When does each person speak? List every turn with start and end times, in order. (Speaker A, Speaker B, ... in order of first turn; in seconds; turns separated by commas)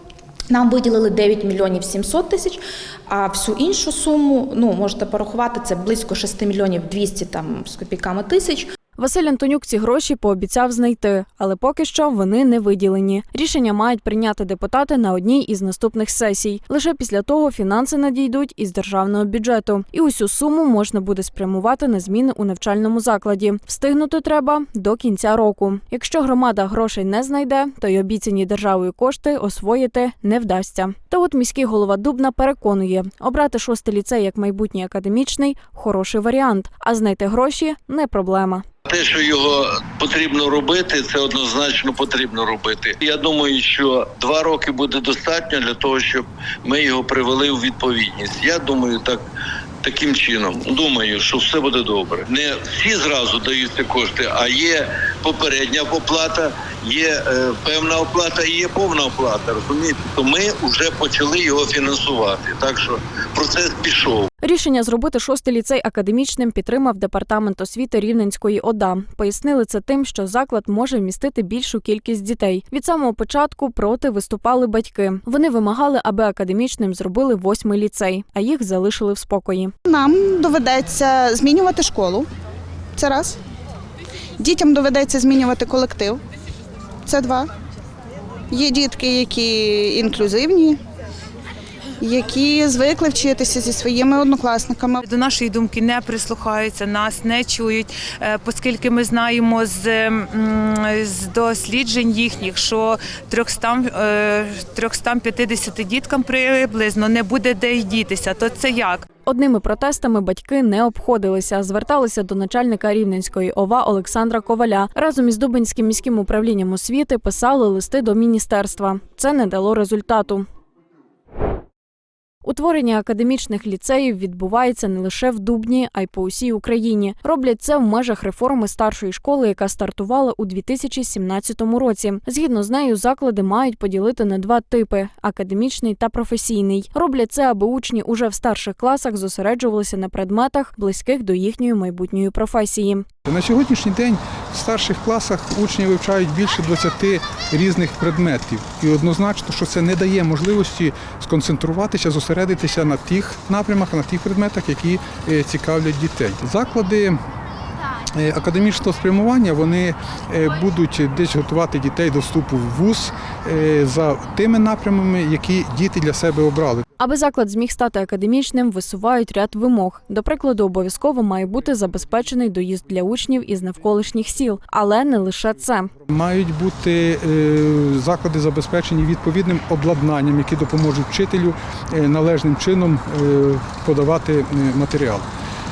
Speaker A: 0.5-8.7, Speaker B: 9.0-38.6, Speaker C: 38.9-49.2, Speaker C: 49.8-64.2, Speaker B: 64.4-79.7, Speaker D: 79.8-82.3, Speaker D: 83.0-83.4, Speaker D: 84.4-86.2, Speaker D: 87.0-87.5, Speaker D: 88.5-90.8, Speaker D: 92.0-95.0, Speaker E: 95.0-109.0, Speaker B: 109.2-120.4, Speaker B: 122.4-143.1, Speaker F: 143.2-157.2, Speaker F: 158.1-166.8, Speaker B: 167.0-175.9, Speaker F: 176.1-185.2